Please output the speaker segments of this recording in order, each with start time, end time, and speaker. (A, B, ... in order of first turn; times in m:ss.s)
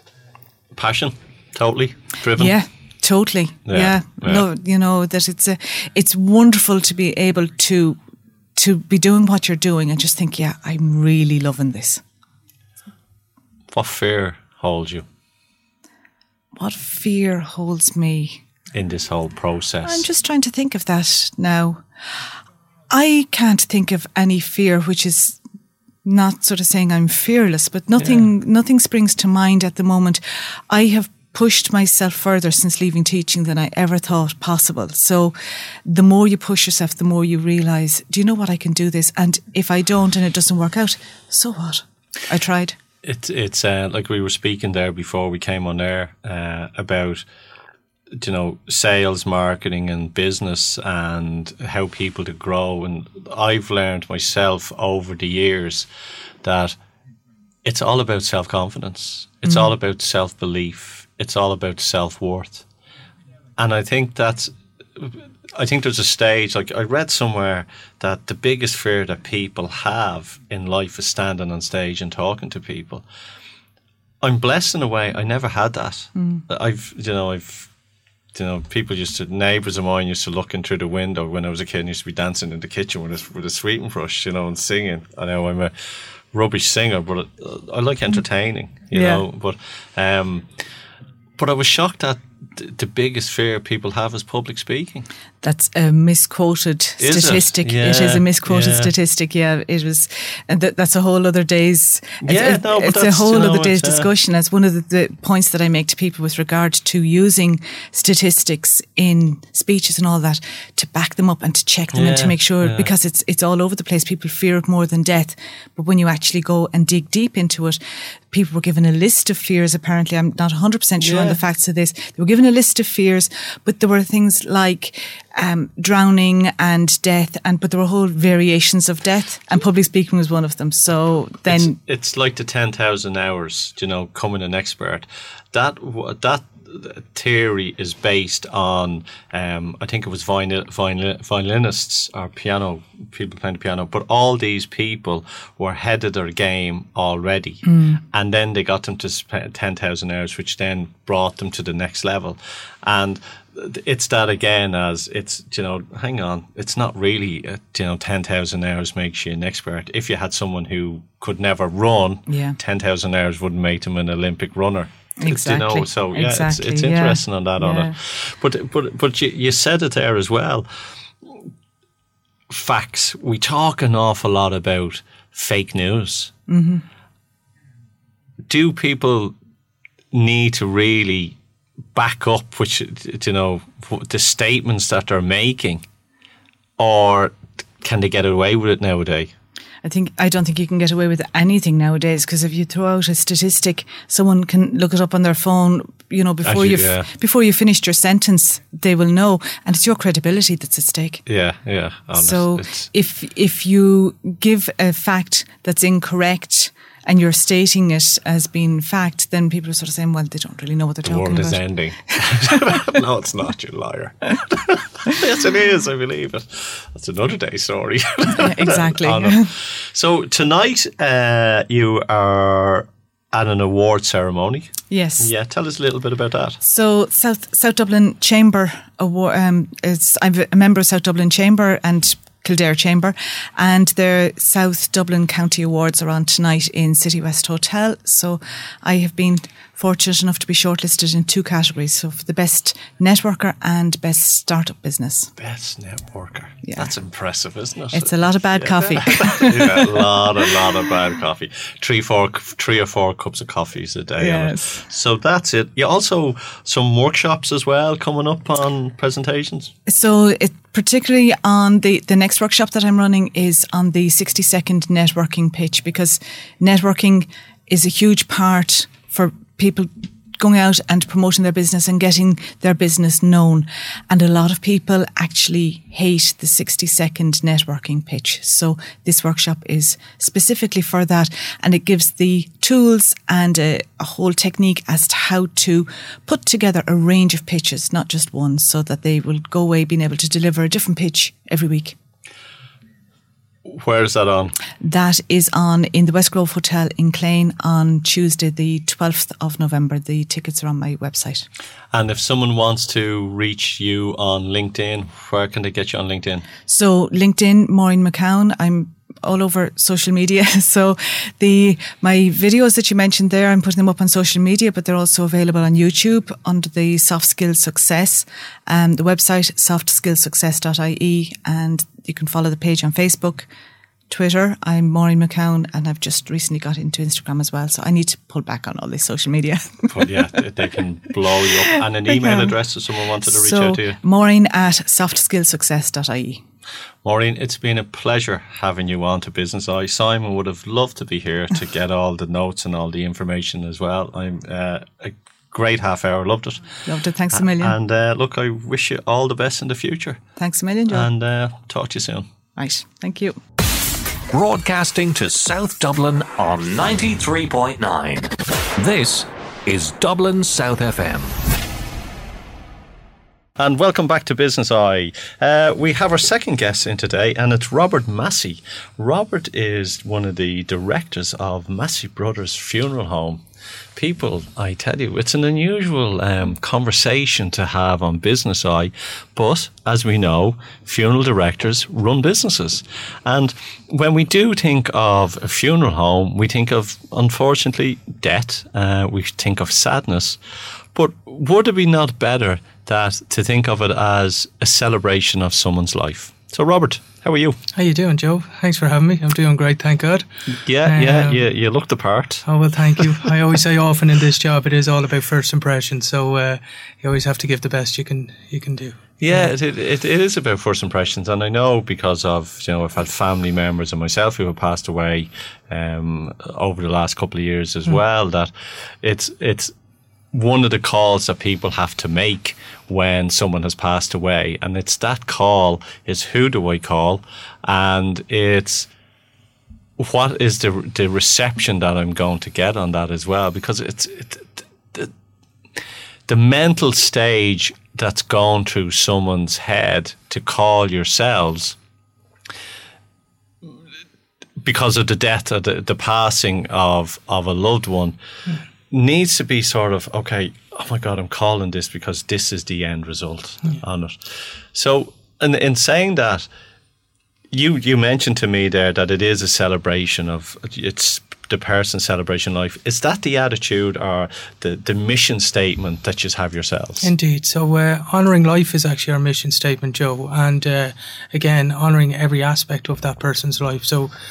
0:00.7-0:02.6 A
0:02.4-0:08.0 B
0:03.6-0:04.4 A
0:08.6-0:12.0 B
0:13.7-0:15.0 A
0:16.6-0:18.4 B
0:18.7-0:20.0 A
0:19.8-0:21.8 B
0:22.9-0:25.4 B
0:26.0-0:42.8 B
0:28.0-0:28.2 A
0:43.0-0:47.2 A
0:48.1-0:55.9 A
0:56.4-0:56.8 A
0:57.6-1:02.6 A
0:59.4-0:59.7 B
1:03.6-1:13.0 A
1:14.2-1:17.7 A
1:16.1-1:16.4 B
1:18.3-1:25.7 A
1:26.3-1:30.6 A
1:28.9-1:29.2 B
1:31.4-1:35.1 A
1:35.4-1:57.8 B
1:37.0-1:38.9 A
1:42.2-1:44.1 A
1:51.9-1:52.9 A
1:58.3-2:11.8 B
2:01.0-2:01.4 A
2:11.5-2:50.7 A
2:27.6-2:28.0 B
2:42.3-2:42.6 B
2:45.2-2:47.9 B
2:52.5-2:56.3 A
2:56.5-2:56.8 B
2:58.5-2:59.3 A
3:00.1-3:01.4 A
3:01.9-3:05.8 A
3:06.8-3:09.3 A
3:09.8-3:21.2 B
3:16.4-3:17.1 A
3:21.2-3:22.9 A
3:22.2-3:32.7 B
3:31.0-3:46.6 A
3:38.3-3:39.5 B
3:44.9-3:45.3 B
3:46.6-4:05.3 B
4:05.4-4:19.7 A
4:06.6-4:06.9 B
4:07.9-4:10.3 B
4:14.2-4:14.8 B
4:19.8-4:52.0 B
4:53.6-4:54.5 A
4:54.8-5:01.4 B
5:01.9-5:06.4 A
5:06.7-5:23.5 B
5:24.1-5:30.1 B
5:29.9-5:34.0 A
5:31.5-5:32.5 B
5:33.2-5:36.4 B
5:37.0-5:46.7 A
5:46.8-5:47.8 B
5:47.3-5:50.2 A
5:50.4-5:51.1 B
5:50.9-5:52.2 A
5:52.6-5:53.4 B
5:54.3-6:01.3 C
6:03.6-6:13.4 A
6:14.0-6:30.4 A
6:30.9-6:37.6 A
6:37.7-6:40.3 D
6:40.6-6:42.4 A
6:40.8-6:41.4 D
6:42.4-6:49.5 D
6:49.2-6:59.7 A
7:00.3-7:08.9 A
7:10.0-7:15.1 A
7:16.3-7:21.8 A
7:24.6-7:28.2 A
7:28.9-7:36.5 A
7:37.5-7:47.1 A
7:47.0-7:54.1 D